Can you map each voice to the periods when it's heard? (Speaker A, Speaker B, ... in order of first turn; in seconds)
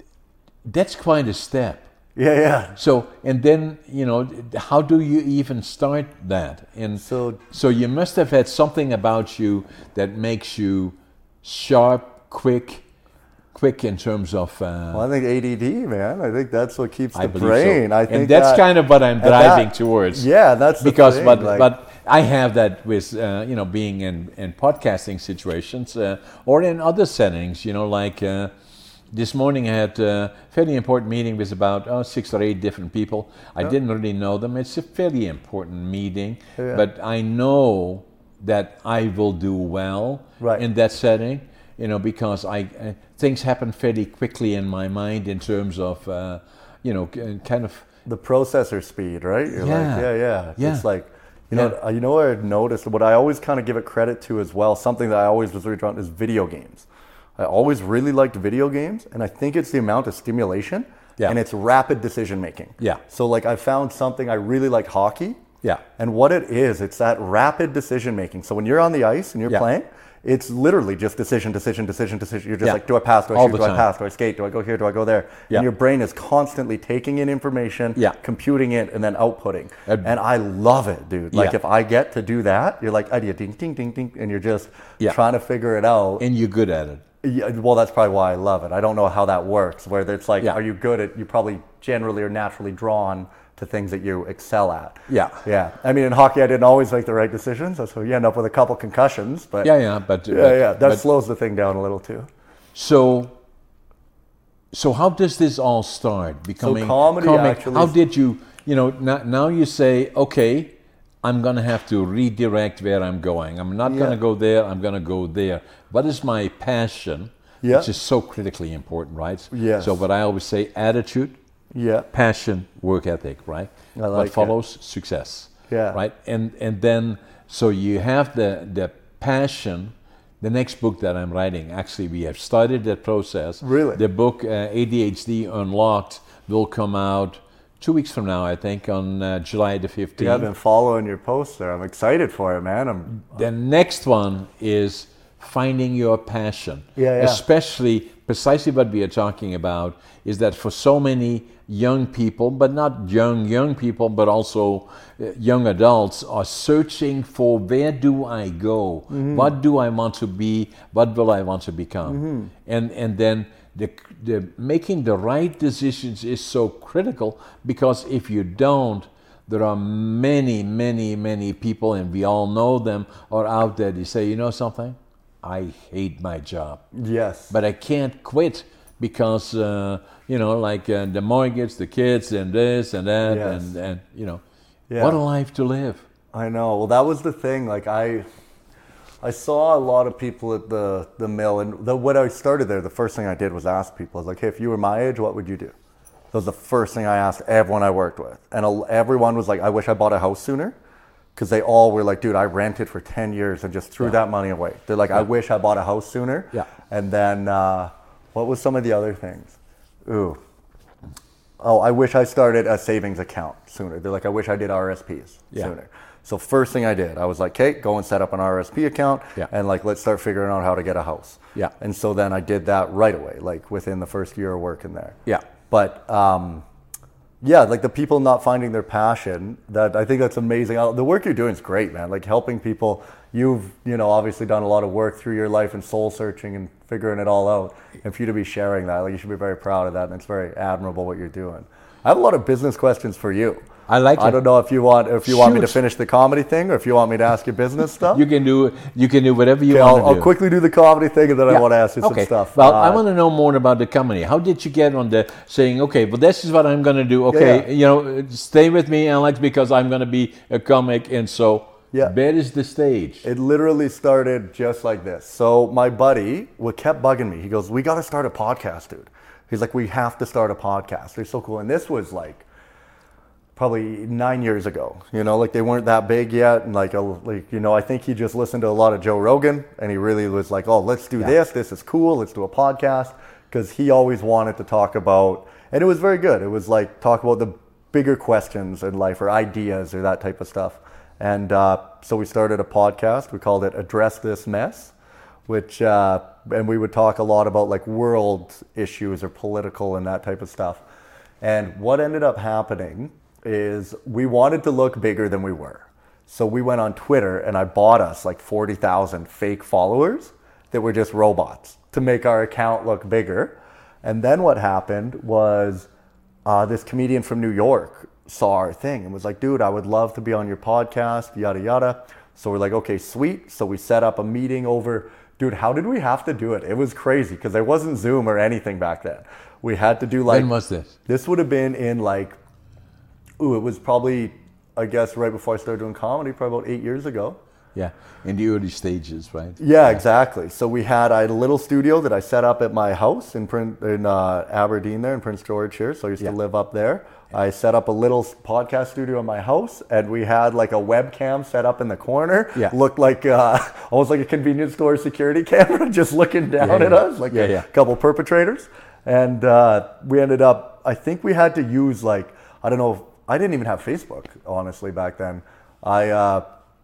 Speaker A: 0.7-1.9, 2.8-12.8, 13.5-15.1, 17.1-20.3, 20.8-28.5, 29.1-47.9, 49.5-50.9, 73.3-73.9, 86.2-87.0, 95.1-95.4, 99.6-101.0, 102.8-103.3, 104.7-121.4, 122.1-140.5, 143.3-176.8, 177.5-184.4, 185.0-186.0, 243.9-244.4, 245.2-245.8, 248.1-250.3, 251.5-263.3, 330.3-331.0, 337.8-340.0, 356.6-357.7
Speaker B: 2.2-2.8, 7.0-7.4, 14.9-18.6, 19.2-21.7, 36.6-36.9, 48.1-56.9, 57.4-65.4, 66.0-86.2, 87.2-99.7, 100.3-102.3, 106.6-108.0, 113.8-114.2, 117.6-117.9, 119.5-120.0, 121.7-122.1, 124.0-124.5, 125.7-126.0, 133.6-134.0, 140.2-143.4, 147.0-147.4, 159.1-159.5, 162.1-162.5, 176.9-177.6, 183.2-183.7, 184.9-185.2, 186.3-188.3, 189.2-195.7, 196.3-200.8, 201.4-210.4, 211.6-225.2, 225.7-226.7, 227.4-248.2, 249.7-253.0, 257.3-257.7, 263.2-272.5, 273.6-294.9, 295.5-300.8, 301.4-315.9, 316.5-330.5, 331.1-332.4, 333.4-337.4, 339.6-366.4